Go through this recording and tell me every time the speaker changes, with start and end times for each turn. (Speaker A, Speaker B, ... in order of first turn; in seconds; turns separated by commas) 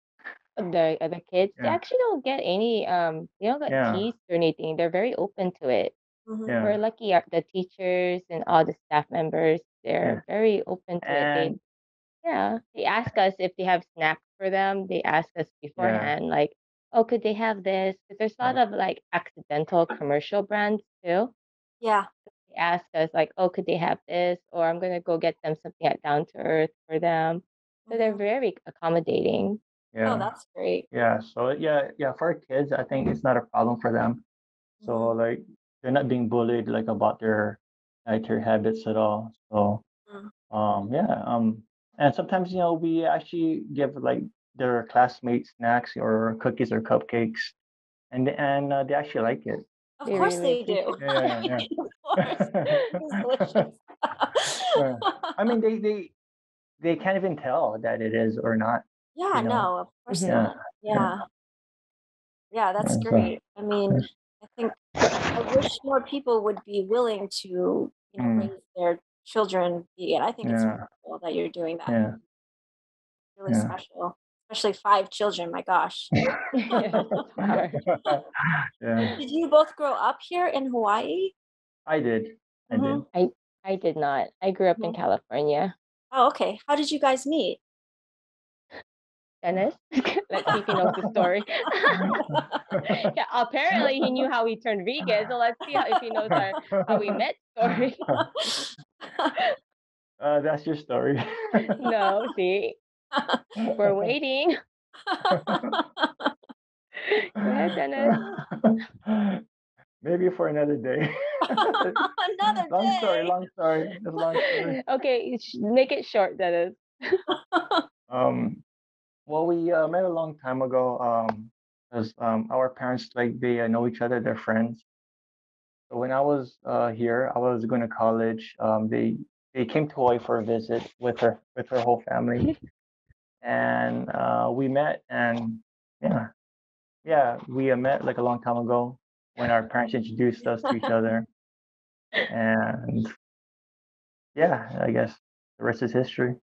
Speaker A: 0.6-6.0, Speaker B: 3.7-4.1, Speaker C: 6.3-6.6, Speaker B: 6.5-6.8, Speaker A: 6.6-11.6, Speaker B: 11.0-11.6, Speaker A: 12.2-21.3, Speaker B: 15.8-16.1, Speaker C: 21.8-22.1, Speaker A: 22.5-29.6, Speaker C: 27.9-28.2, Speaker B: 29.9-30.3, Speaker C: 30.1-30.9, Speaker B: 30.9-34.2, Speaker C: 34.8-35.2, Speaker B: 34.8-39.8, Speaker B: 40.5-47.5, Speaker B: 48.1-49.6, Speaker C: 50.0-55.4, Speaker A: 50.0-51.0, Speaker B: 51.0-51.7, Speaker B: 52.2-53.7, Speaker B: 54.8-56.1, Speaker B: 56.8-59.7, Speaker C: 59.1-61.2, Speaker A: 60.1-60.4, Speaker B: 60.3-61.1, Speaker C: 62.5-64.8, Speaker B: 62.8-63.3, Speaker C: 65.3-72.0, Speaker B: 68.2-68.5, Speaker B: 70.4-70.9, Speaker B: 71.9-72.2, Speaker C: 73.4-77.1, Speaker B: 73.5-73.7, Speaker A: 76.5-77.8, Speaker B: 77.4-79.1, Speaker C: 79.2-81.3, Speaker B: 81.9-83.0, Speaker C: 82.7-83.0, Speaker A: 83.1-85.7, Speaker C: 86.1-87.6, Speaker A: 89.4-92.2, Speaker B: 92.1-93.1, Speaker C: 92.3-92.6, Speaker A: 92.9-98.1, Speaker B: 96.3-97.0, Speaker C: 98.5-99.3, Speaker B: 100.2-101.8, Speaker A: 101.8-102.8, Speaker C: 103.1-103.5, Speaker A: 103.8-104.6, Speaker C: 105.1-106.3, Speaker B: 105.3-105.8, Speaker A: 107.0-108.2, Speaker B: 108.0-109.4, Speaker B: 110.0-112.0, Speaker C: 111.5-113.3, Speaker B: 112.7-114.8, Speaker A: 114.4-117.2, Speaker C: 117.3-117.8, Speaker B: 118.1-118.6, Speaker B: 119.3-124.8, Speaker B: 125.9-132.5, Speaker B: 133.4-136.3, Speaker B: 137.0-141.3, Speaker B: 142.3-143.1, Speaker B: 144.3-146.4